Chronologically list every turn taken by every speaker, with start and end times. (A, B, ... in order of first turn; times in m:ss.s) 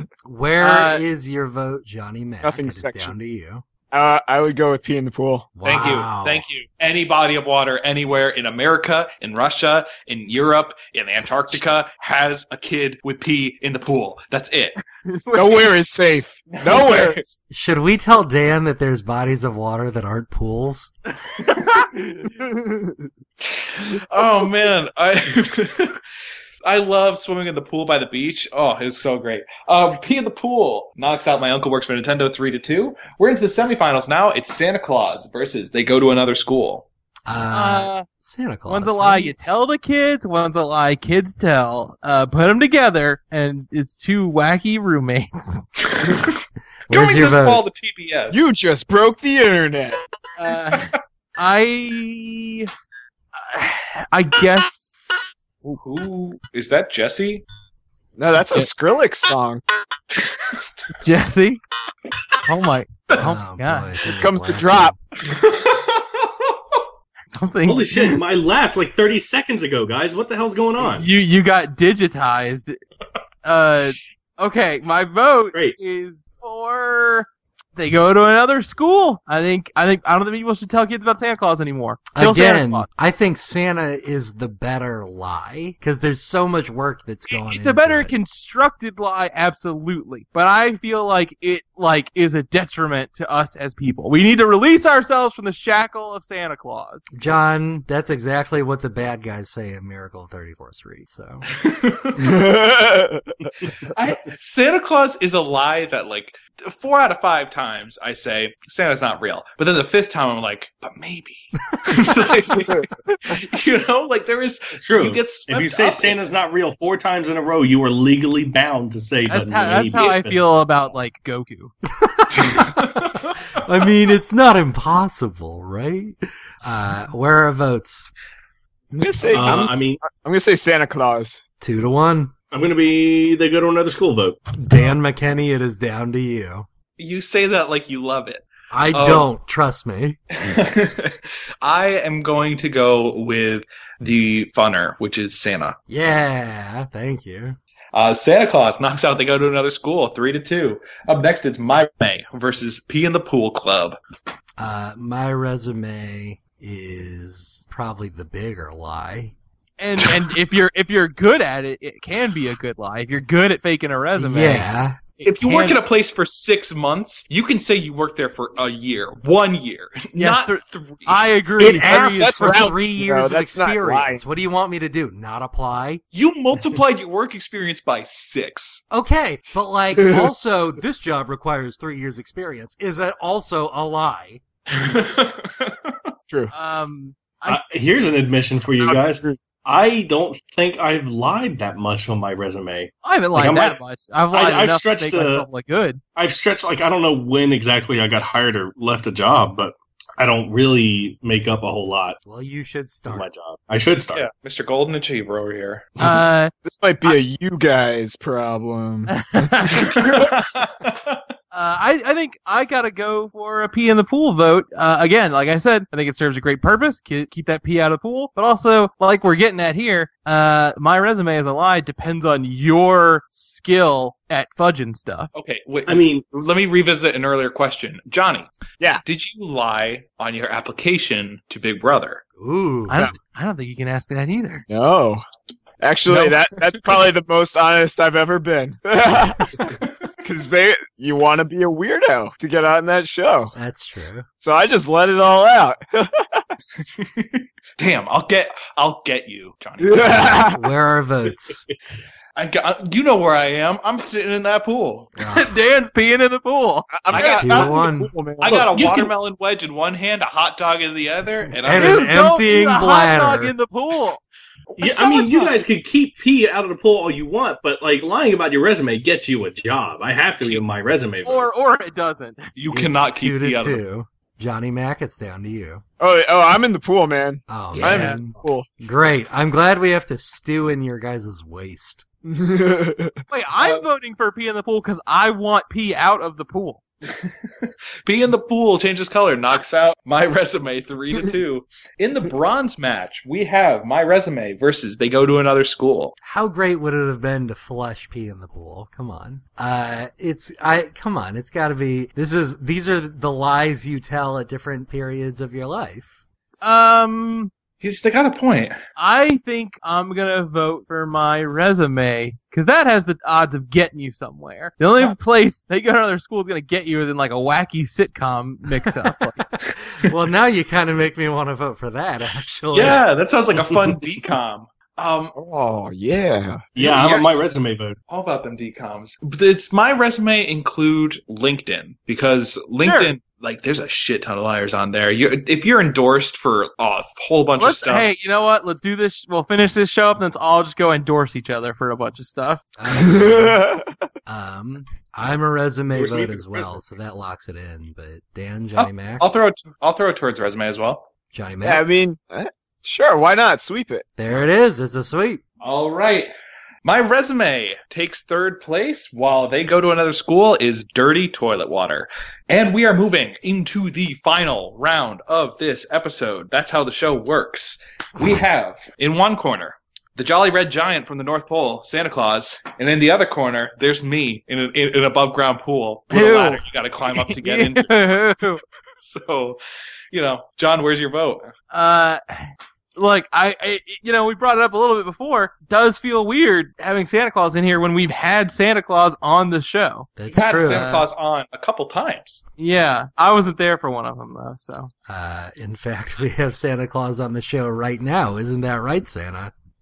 0:00.2-0:03.6 A
0:00.6-0:01.0 B
0:02.4-0:03.2 C
0:03.9-0:05.5 C
0:05.6-0:06.4 A
0:05.6-0:15.7 D
0:15.3-0:17.4 C
0:16.5-0:17.2 D
0:17.5-0:20.9 A
0:21.4-0:21.9 D
0:22.3-0:23.0 C
0:23.4-0:26.0 D
0:26.6-0:36.9 D
0:37.3-0:39.3 A
0:37.5-0:38.0 B
0:38.7-0:45.7 B
0:45.8-0:48.5 D
0:46.9-0:47.6 A
0:48.3-0:50.0 C
0:50.4-0:52.7 B
0:53.4-0:55.0 B
0:55.7-0:57.4 D
0:58.2-0:59.6 C
1:00.1-1:00.6 D
1:01.0-1:01.6 B
1:02.4-1:04.0 B
1:03.2-1:05.0 A
1:04.1-1:05.0 C
1:05.2-1:06.8 D
1:07.3-1:08.2 B
1:07.6-1:11.1 E
1:10.8-1:12.8 B
1:13.4-1:22.9 B
1:22.1-1:28.2 A
1:27.3-1:37.0 B
1:37.2-1:41.5 A
1:41.5-1:42.5 D
1:42.2-1:43.3 C
1:43.9-1:56.2 D
1:54.8-2:00.5 E
1:59.3-2:01.7 B
2:02.0-2:02.8 A
2:02.3-2:03.6 D
2:03.6-2:08.1 A
2:08.9-2:11.4 C
2:09.3-2:10.0 E
2:11.6-2:12.3 A
2:12.5-2:14.4 E
2:14.6-2:16.7 A
2:17.0-2:19.3 D
2:18.7-2:20.5 A
2:20.4-2:25.8 D
2:25.9-2:27.6 A
2:27.9-2:34.0 D
2:34.6-2:39.4 A
2:39.8-2:45.8 B
2:44.2-2:45.0 A
2:45.2-2:51.8 D
2:50.2-2:52.7 B
2:51.6-2:56.0 A
2:51.6-2:54.2 C
2:56.1-2:58.8 D
2:58.9-3:04.4 A
3:04.7-3:06.0 D
3:06.5-3:07.6 B
3:07.5-3:13.8 E
3:08.8-3:09.4 C
3:13.0-3:16.0 B
3:14.3-3:15.5 E
3:16.2-3:22.2 E
3:22.2-3:23.3 A
3:23.1-3:24.3 E
3:24.1-3:26.0 D
3:26.0-3:26.5 B
3:26.6-3:30.3 C
3:29.1-3:29.9 B
3:29.8-3:31.2 D
3:31.5-3:45.3 B
3:45.3-3:48.5 D
3:45.9-3:46.3 E
3:49.0-3:52.2 D
3:52.4-3:53.0 A
3:52.9-3:54.7 B
3:54.7-3:55.2 C
3:55.8-4:03.5 C
4:03.6-4:04.3 A
4:04.4-4:06.5 C
4:06.8-4:10.4 D
4:09.8-4:10.6 C
4:10.2-4:11.6 A
4:11.3-4:11.7 E
4:12.4-4:15.1 D
4:15.2-4:15.5 A
4:15.3-4:17.0 B
4:16.9-4:18.6 C
4:17.1-4:17.8 D
4:17.2-4:18.1 A
4:18.4-4:22.1 D
4:18.4-4:19.1 E
4:21.6-4:23.5 A
4:21.7-4:24.2 B
4:24.8-4:25.5 B
4:24.8-4:31.5 E
4:31.2-4:32.5 B
4:32.6-4:33.8 D
4:32.7-4:35.8 A
4:36.0-4:38.7 C
4:37.5-4:42.1 A
4:37.7-4:38.1 D
4:37.8-4:38.2 B
4:42.3-4:43.2 C
4:43.3-4:46.8 B
4:43.6-4:43.9 D
4:48.0-4:56.2 D
4:56.2-5:06.1 A
5:06.6-5:07.5 B
5:07.8-5:08.8 D
5:09.0-5:19.4 B
5:19.4-5:23.0 A
5:22.7-5:25.4 D
5:25.4-5:26.7 C
5:26.8-5:27.3 D
5:26.8-5:28.0 E
5:28.1-5:38.1 D
5:32.8-5:33.2 B
5:37.6-5:42.6 B
5:42.8-5:43.6 A
5:42.9-5:44.0 C
5:44.3-5:49.2 A
5:45.9-5:46.8 E
5:48.8-5:51.1 D
5:51.3-5:51.8 A
5:51.6-5:54.1 C
5:54.2-5:55.4 A
5:55.6-5:56.3 D
5:56.8-6:18.2 D
6:16.1-6:18.6 B
6:19.0-6:19.6 D
6:20.1-6:21.5 D
6:21.7-6:22.2 B
6:23.0-6:31.1 B
6:30.2-6:30.9 A
6:30.3-6:32.4 D
6:32.6-6:34.9 B
6:35.1-6:39.5 A